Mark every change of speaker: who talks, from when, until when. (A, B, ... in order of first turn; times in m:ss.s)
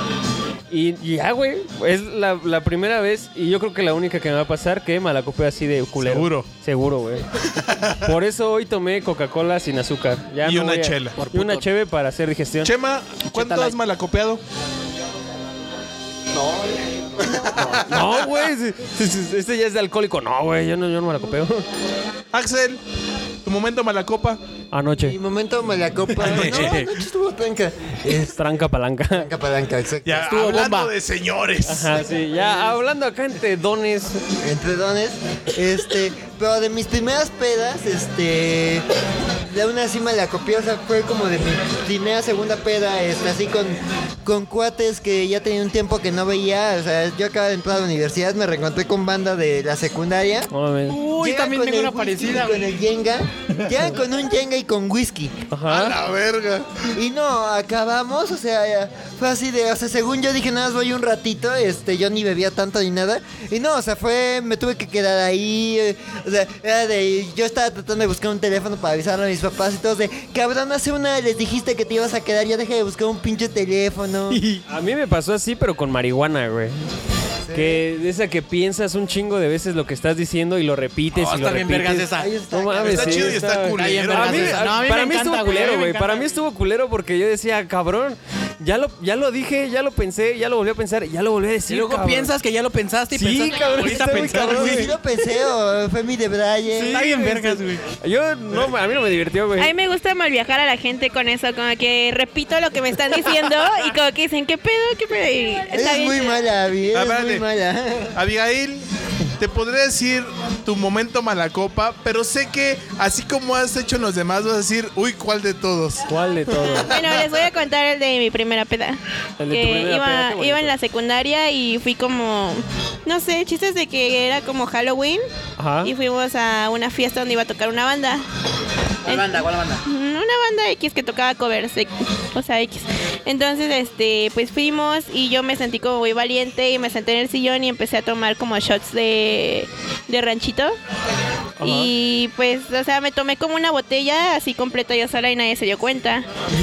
0:00.7-0:07.3 A
0:06.0-0:06.5 B
0:07.6-0:08.1 B
0:08.0-0:12.7 A
0:10.4-0:11.2 B
0:11.2-0:11.6 C
0:12.6-0:14.4 B
0:13.2-0:13.8 C
0:16.3-0:17.4 D
0:17.3-0:18.3 B
0:17.6-0:21.7 A
0:22.3-0:22.8 B
0:23.4-0:24.4 B
0:24.7-0:25.2 A
0:25.0-0:28.6 D
0:26.2-0:26.8 B
0:26.3-0:26.7 A
0:26.4-0:26.9 C
0:28.4-0:29.3 A
0:29.1-0:30.3 D
0:30.0-0:32.0 B
0:30.2-0:30.9 C
0:31.7-0:34.3 A
0:34.4-0:38.8 D
0:39.5-0:50.5 D
0:50.5-0:51.0 A
0:50.9-0:52.7 C
0:51.1-0:55.4 D
0:55.5-0:56.0 A
0:55.7-0:56.9 B
0:56.9-1:14.4 D
1:14.3-1:14.6 C
1:14.7-1:16.8 A
1:17.4-1:17.8 D
1:17.5-1:32.3 A
1:21.1-1:22.4 C
1:22.2-1:23.4 D
1:22.8-1:24.7 B
1:23.7-1:26.4 C
1:31.7-1:34.9 C
1:33.1-1:35.0 A
1:33.8-1:34.6 B
1:34.5-1:37.0 D
1:36.7-1:39.7 A
1:36.8-1:37.8 C
1:39.6-1:46.4 E
1:45.7-1:48.2 D
1:46.9-1:47.4 B
1:48.2-1:48.8 B
1:49.4-1:57.3 B
1:56.1-1:56.9 A
1:56.9-1:59.0 E
1:59.4-2:00.7 A
1:59.5-2:05.2 E
2:05.6-2:05.9 A
2:05.8-2:08.2 E
2:09.1-2:09.8 C
2:09.1-2:20.8 E
2:21.6-2:21.9 A
2:21.6-2:26.3 E